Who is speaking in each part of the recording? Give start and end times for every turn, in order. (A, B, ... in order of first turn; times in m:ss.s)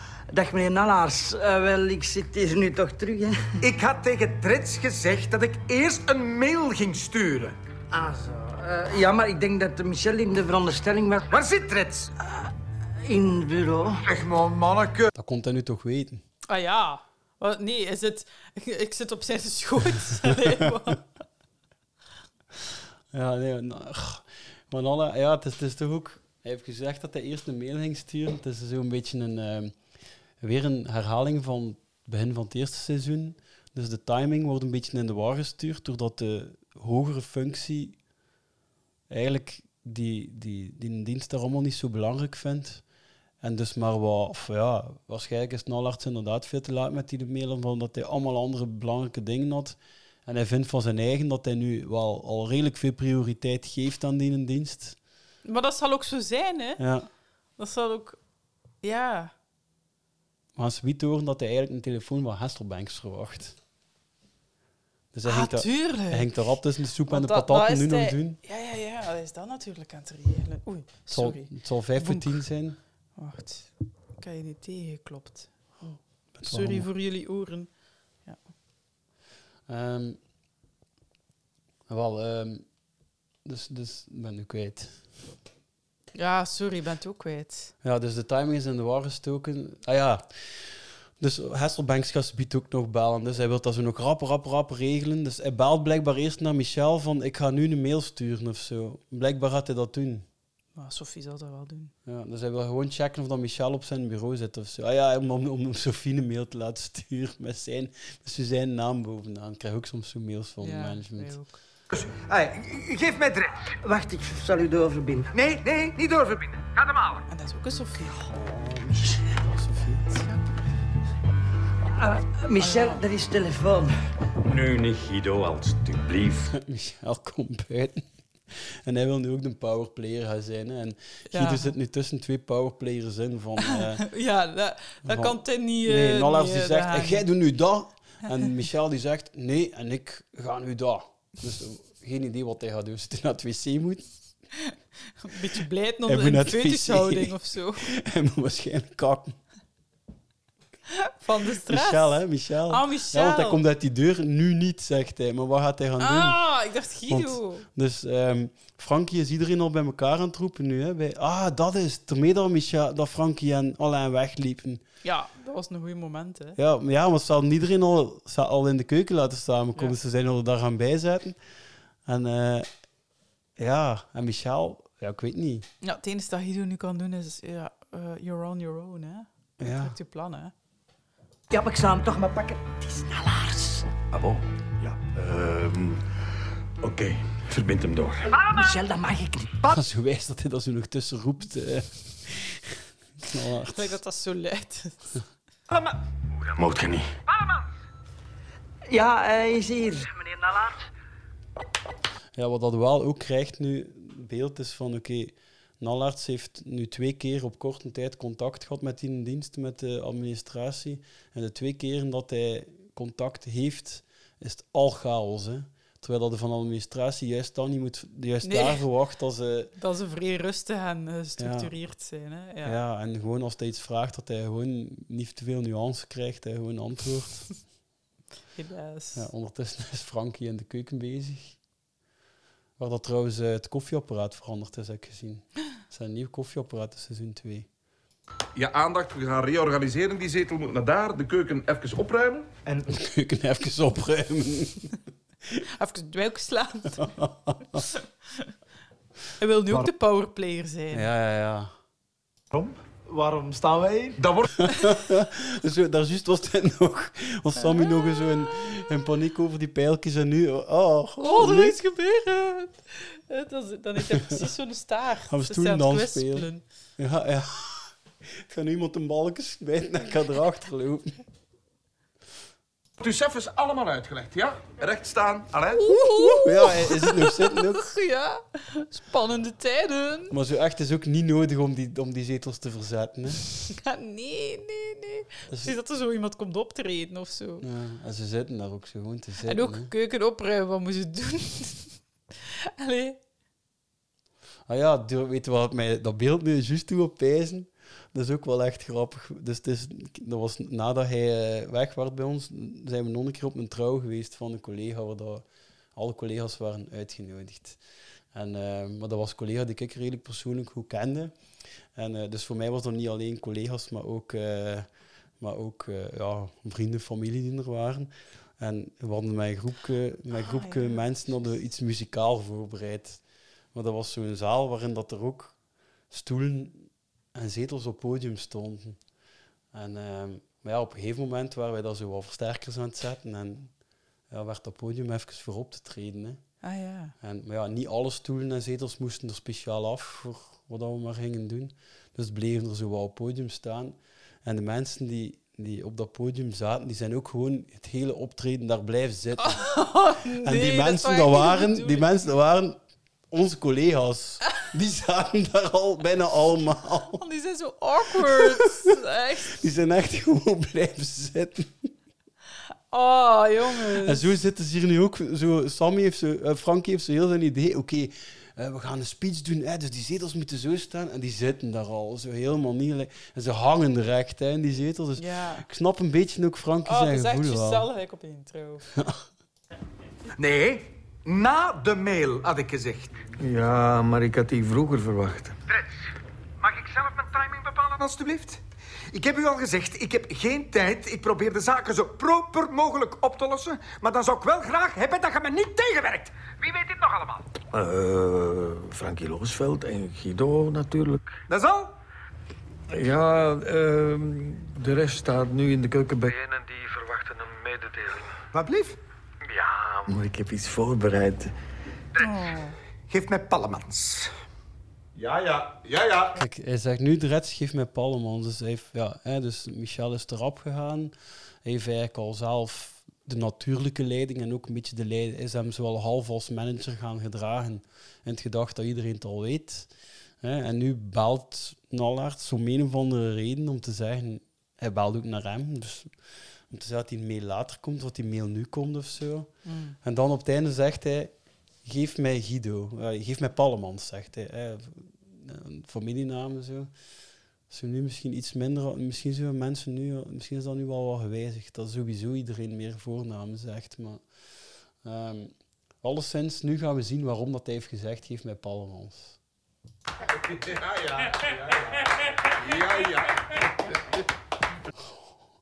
0:00.3-0:03.4 A
0:03.6-0:07.6 B
0:07.9-0:11.3 A
0:11.3-0:12.1 B
0:12.2-0:12.5 A
0:13.0-0:14.0 A
0:14.1-0:15.1 B
0:15.1-0:16.2 C
0:16.5-0:21.0 D
0:23.1-0:29.8 C
0:30.4-0:38.0 C
0:39.1-0:42.8 C
0:43.4-0:55.0 C
0:55.4-0:56.8 D
0:56.8-0:57.1 C
0:57.6-0:58.2 D
0:58.8-0:59.3 D
1:00.6-1:03.6 C
1:05.1-1:08.4 C
1:05.3-1:06.4 D
1:07.1-1:12.4 D
1:11.1-1:12.8 C
1:13.2-1:17.7 D
1:16.4-1:16.9 C
1:19.7-1:20.2 C
1:21.9-1:22.6 C
1:23.4-1:25.0 C
1:26.2-1:27.7 D
1:27.8-1:40.3 C
1:40.8-1:41.9 D
1:42.0-1:51.4 C
1:50.6-1:51.5 D
1:51.9-1:53.7 B
1:53.8-1:55.3 A
1:55.3-1:57.2 B
1:57.3-1:58.2 D
1:58.2-2:00.1 C
2:00.1-2:00.6 D
2:02.0-2:03.9 A
2:02.6-2:03.0 D
2:04.4-2:06.5 E
2:06.5-2:14.1 C
2:11.3-2:11.7 D
2:13.6-2:17.3 D
2:15.0-2:24.1 C
2:24.7-2:28.0 D
2:26.1-2:29.4 C
2:30.9-2:32.2 D
2:31.7-2:36.4 C
2:32.7-2:33.6 D
2:36.0-2:37.7 D
2:37.1-2:44.8 C
2:45.0-2:46.6 D
2:46.6-2:51.4 C
2:52.1-2:52.7 C
2:53.6-2:55.7 C
2:55.8-3:00.5 D
2:59.6-3:00.0 C
3:01.5-3:03.9 A
3:04.1-3:06.0 E
3:06.8-3:08.4 E
3:08.5-3:09.6 A
3:09.6-3:14.0 C
3:13.7-3:15.2 D
3:15.7-3:16.0 B
3:16.5-3:17.1 E
3:17.3-3:17.6 B
3:18.9-3:20.8 A
3:22.4-3:39.7 C
3:38.4-3:38.8 D
3:39.8-3:42.8 D
3:41.4-3:41.7 C
3:42.6-3:47.5 C
3:48.6-3:49.3 D
3:49.1-3:51.6 C
3:52.8-3:57.7 C
3:58.6-4:02.5 F
4:02.7-4:03.0 G
4:02.9-4:04.9 C
4:05.8-4:07.1 D
4:06.9-4:07.8 C
4:07.9-4:08.5 D
4:09.4-4:11.1 D
4:10.9-4:11.7 C
4:12.5-4:14.3 G
4:14.2-4:14.6 F
4:14.6-4:21.8 C
4:17.6-4:18.5 D
4:21.2-4:26.6 D
4:24.0-4:24.5 C
4:25.3-4:31.2 C
4:33.0-4:35.9 F
4:35.7-4:40.3 D
4:36.0-4:37.8 C
4:40.3-4:43.4 C
4:43.7-4:47.6 D
4:45.5-4:45.8 C
4:47.6-4:49.9 C
4:49.4-4:53.2 D
4:54.7-5:05.4 C
5:06.0-5:07.8 C
5:08.3-5:11.4 C
5:12.0-5:14.9 C
5:15.4-5:23.2 C
5:20.3-5:21.0 D
5:23.7-5:25.6 C
5:26.1-5:29.0 C
5:29.7-5:33.7 C
5:34.3-5:36.4 C
5:36.6-5:37.2 D
5:37.2-5:49.8 C
5:49.4-5:52.1 D
5:50.4-5:52.8 C
5:53.3-5:57.2 C
5:57.2-5:59.5 D
5:58.2-5:58.9 C
5:59.5-6:01.9 C
6:02.9-6:04.2 D
6:03.7-6:17.9 C
6:15.2-6:15.7 D
6:16.8-6:18.9 D
6:19.0-6:19.2 C
6:20.4-6:23.2 B
6:23.4-6:25.6 E
6:25.7-6:26.1 B
6:26.6-6:37.5 B
6:37.7-6:41.3 E
6:41.5-6:42.0 B
6:42.9-6:48.2 E
6:48.5-6:49.0 B
6:49.6-6:51.5 E
6:52.2-6:52.8 D
6:53.1-6:54.3 B
6:55.2-6:56.3 F
6:56.4-7:09.9 C
7:10.4-7:16.2 C
7:16.7-7:21.3 C
7:19.6-7:20.0 D
7:21.8-7:26.9 C
7:27.7-7:34.2 C
7:35.0-7:39.4 C
7:40.4-7:43.6 F
7:45.0-7:45.3 C